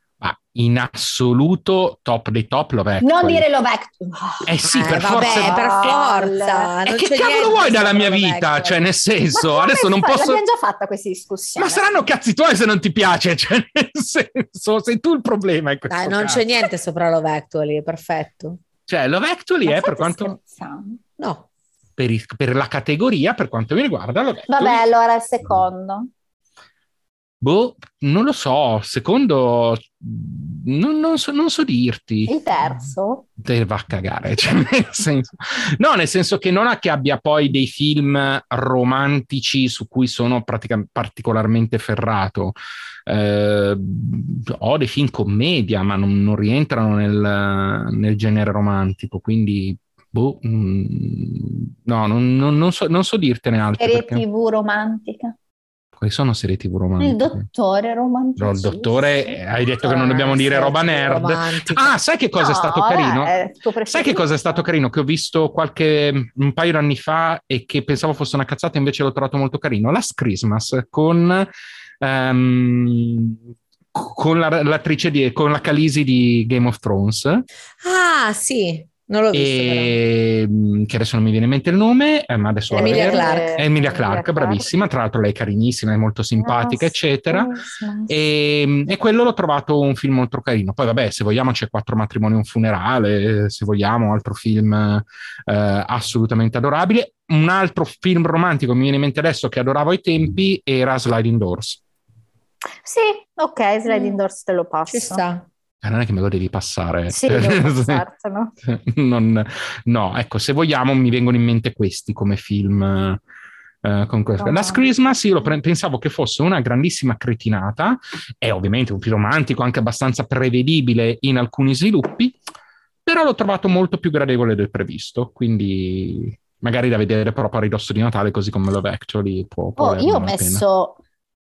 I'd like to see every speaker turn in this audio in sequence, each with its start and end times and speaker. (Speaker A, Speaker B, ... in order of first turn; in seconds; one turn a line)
Speaker A: 0.2-3.4
Speaker B: 3.0-4.5
Speaker A: 4.4-5.9
Speaker C: 4.6-8.8
Speaker B: 5.1-6.8
Speaker A: 6.9-10.4
Speaker B: 9.3-11.9
Speaker A: 11.6-16.5
Speaker C: 15.9-18.6
Speaker A: 18.9-20.4
Speaker B: 19.6-21.0
Speaker C: 21.2-21.4
Speaker A: 22.0-24.8
Speaker B: 24.5-26.1
Speaker A: 27.4-32.4
Speaker B: 32.2-33.2
Speaker A: 33.4-54.2
Speaker B: 53.8-55.3
Speaker A: 56.0-57.4
Speaker B: 57.0-59.4
Speaker A: 58.4-63.3
Speaker C: 59.8-61.9
Speaker B: 62.4-64.6
Speaker A: 63.9-71.5
Speaker A: 72.0-73.4
Speaker A: 73.9-77.4
Speaker C: 77.8-80.0
Speaker A: 79.3-87.5
Speaker B: 82.7-84.7
Speaker C: 82.7-83.6
Speaker B: 86.4-88.2
Speaker A: 88.1-101.8
Speaker B: 102.8-105.2
Speaker C: 103.9-104.1
Speaker C: 104.9-105.4
Speaker A: 105.8-108.0
Speaker B: 107.1-108.5
Speaker A: 108.6-113.2
Speaker A: 113.8-122.4
Speaker B: 114.4-114.8
Speaker A: 123.0-130.6
Speaker B: 129.8-131.0